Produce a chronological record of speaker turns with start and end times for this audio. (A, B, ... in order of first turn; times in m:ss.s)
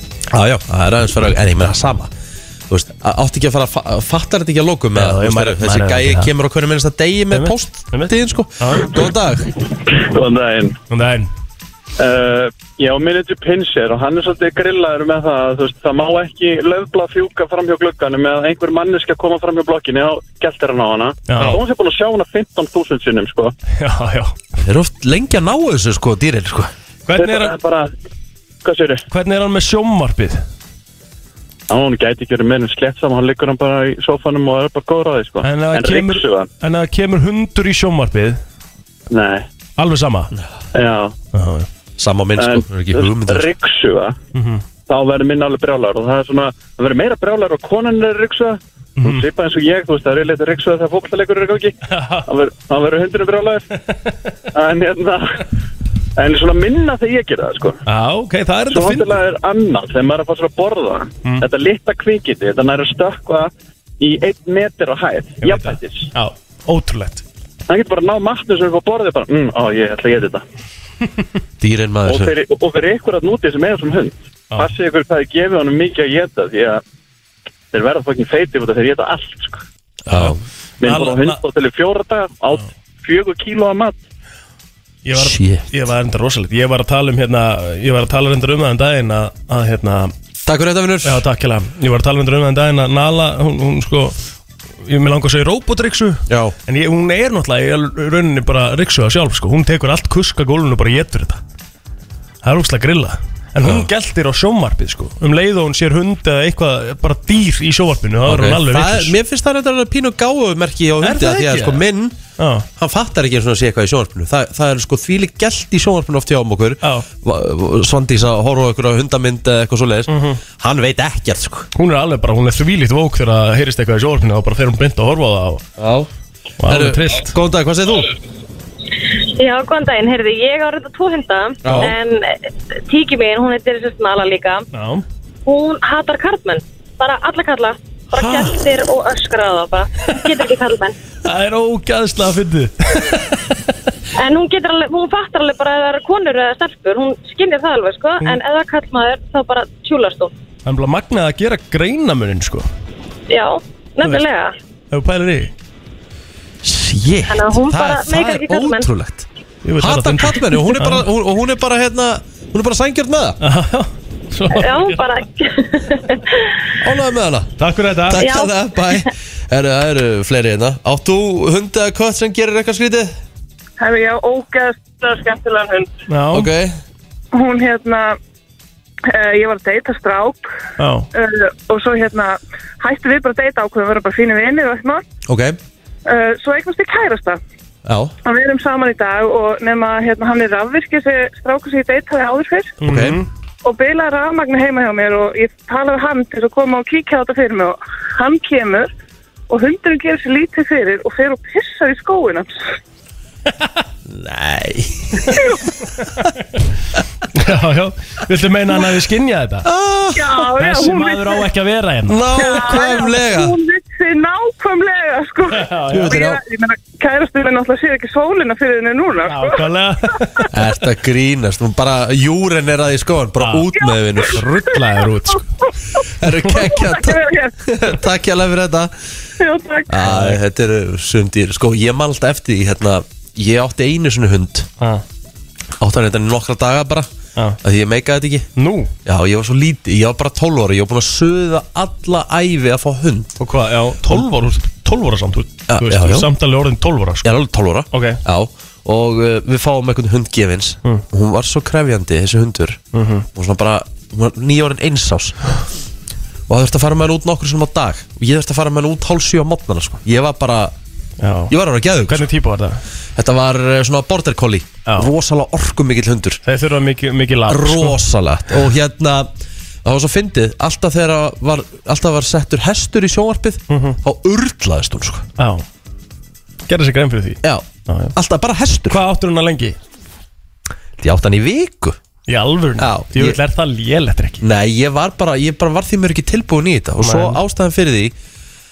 0:00.3-0:02.1 A
0:02.7-0:09.5 A
0:05.0-0:06.3 B
0:07.3-0:09.0 B
0:09.9-0:10.8 C
0:10.9-0:11.3 B
0:12.0-0:23.5 C
0:21.3-0:21.6 B
0:23.8-0:24.4 B
0:24.6-0:26.7 A
0:27.1-0:27.6 B
0:27.2-0:27.9 C
0:28.6-0:29.0 C
0:29.1-0:30.4 B
0:31.7-0:36.5 C
0:35.4-0:38.4 B
0:39.1-0:39.5 C
0:39.8-0:40.3 B
0:40.7-0:41.2 C
0:41.3-0:41.7 B
0:42.0-0:43.5 A
0:42.4-0:44.2 C
0:44.3-0:44.6 B
0:44.9-0:53.7 C
0:49.0-0:49.3 B
0:51.9-0:52.3 B
0:54.5-0:55.4 C
0:56.2-0:57.8 C
0:57.9-0:59.1 B
0:58.7-1:06.1 C
1:05.4-1:07.2 B
1:07.7-1:10.4 C
1:11.6-1:12.3 A
1:12.1-1:16.8 C
1:17.7-1:19.6 C
1:20.1-1:20.4 A
1:20.1-1:21.4 B
1:20.8-1:24.0 C
1:25.0-1:30.1 B
1:25.1-1:25.6 A
1:30.4-1:31.2 A
1:31.0-1:34.2 B
1:34.8-1:41.4 B
1:36.3-1:36.6 A
1:42.4-1:49.1 B
1:43.6-1:43.9 A
1:48.2-1:52.2 A
1:51.0-1:51.8 B
1:52.4-1:52.7 B
1:52.8-2:01.7 A
1:56.8-1:57.1 B
2:00.1-2:00.4 B
2:01.8-2:05.6 B
2:05.8-2:06.1 A
2:06.6-2:07.3 B
2:06.7-2:08.1 A
2:09.4-2:14.7 D
2:11.6-2:12.0 A
2:14.7-2:15.0 B
2:15.5-2:21.0 D
2:18.1-2:18.6 B
2:21.2-2:23.6 B
2:24.2-2:30.3 D
2:30.7-2:32.7 B
2:33.3-2:34.5 D
2:34.9-2:35.5 B
2:36.6-2:39.3 A
2:37.3-2:38.9 D
2:39.6-2:41.0 B
2:39.8-2:43.4 A
2:43.4-2:45.0 B
2:44.5-2:46.6 D
2:46.8-2:47.5 A
2:47.6-2:48.3 B
2:48.1-2:53.1 A
2:48.2-2:49.0 D
2:53.8-2:55.9 E
2:56.1-2:56.5 B
2:56.3-2:56.8 A
2:57.3-2:58.2 E
2:59.1-3:00.5 E
3:00.8-3:01.1 B
3:01.1-3:05.0 E
3:05.3-3:05.6 A
3:06.1-3:07.4 E
3:07.8-3:08.2 A
3:08.2-3:12.8 E
3:12.8-3:13.3 B
3:12.8-3:13.2 A
3:13.6-3:18.9 E
3:19.5-3:22.6 E
3:24.1-3:25.4 A
3:25.3-3:25.7 E
3:27.3-3:29.7 B
3:29.6-3:30.5 A
3:30.1-3:31.4 E
3:30.6-3:32.7 B
3:32.1-3:33.6 A
3:32.3-3:39.6 E
3:35.5-3:36.2 B
3:35.9-3:36.4 A
3:39.3-3:40.5 B
3:40.2-3:40.5 E
3:40.5-3:44.4 A
3:43.4-3:43.7 B
3:43.8-3:44.2 E
3:44.3-3:45.5 B
3:46.2-3:48.9 A
3:46.5-3:47.6 E
3:49.4-3:50.0 E
3:49.9-3:54.7 A
3:50.0-3:50.4 B
3:55.8-3:57.1 A
3:57.6-3:58.5 A
3:58.6-3:58.9 B
3:59.0-4:03.4 A
4:03.4-4:07.3 B
4:05.7-4:06.3 A
4:07.2-4:12.8 A
4:07.9-4:08.2 B
4:12.9-4:13.3 B
4:13.3-4:15.6 A
4:16.5-4:20.7 A
4:21.2-4:21.5 B
4:21.5-4:22.3 A
4:22.1-4:22.8 B
4:23.2-4:26.4 A
4:26.4-4:28.0 B
4:27.5-4:29.3 A
4:29.8-4:35.3 A
4:33.7-4:34.0 B
4:35.4-4:35.6 B
4:36.7-4:38.1 B
4:37.4-4:39.0 A
4:38.9-4:39.8 B
4:41.0-4:42.0 A
4:42.3-4:44.4 B
4:42.8-4:43.4 A
4:44.4-4:48.1 A
4:47.0-4:47.4 B